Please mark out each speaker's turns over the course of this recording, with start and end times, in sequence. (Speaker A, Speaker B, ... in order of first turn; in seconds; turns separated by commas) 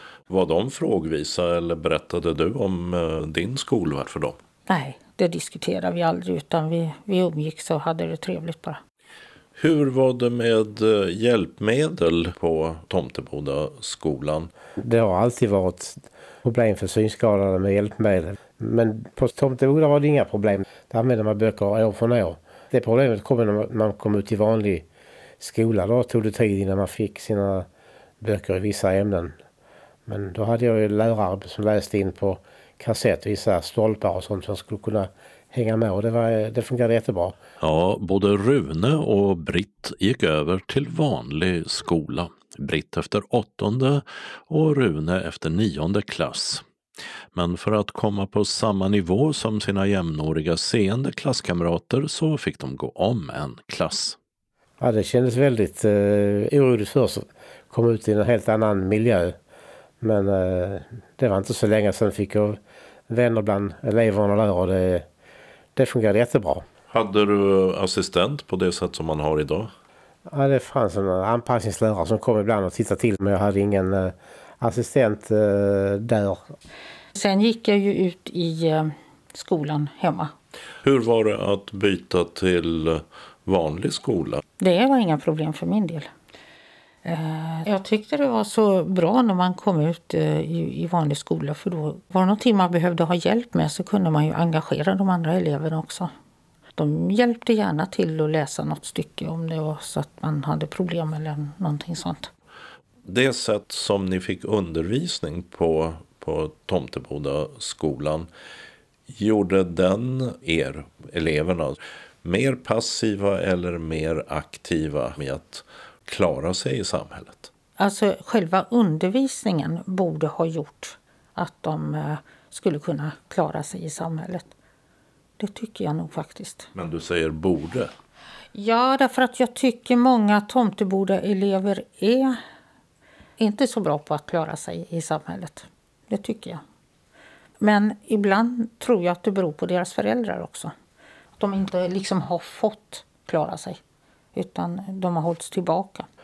Speaker A: 0.3-4.4, Speaker B: 4.7-8.8, Speaker A: 9.6-14.5, Speaker C: 14.8-24.9, Speaker C: 25.4-27.7, Speaker C: 28.2-29.3, Speaker C: 30.1-37.4, Speaker A: 37.6-46.6, Speaker A: 47.3-54.2, Speaker C: 54.8-59.4, Speaker C: 60.0-65.1, Speaker C: 65.8-66.7, Speaker A: 66.9-69.7, Speaker C: 70.3-76.5, Speaker B: 77.2-80.3, Speaker A: 80.8-84.4, Speaker B: 84.6-86.1, Speaker B: 87.0-96.1, Speaker B: 96.8-102.3, Speaker A: 103.0-108.3, Speaker A: 109.1-117.5, Speaker B: 117.8-124.5, Speaker B: 125.4-126.7, Speaker A: 126.7-127.9, Speaker B: 128.5-132.4, Speaker B: 133.4-136.6, Speaker B: 137.6-140.7, Speaker B: 141.4-143.8, Speaker B: 144.3-146.1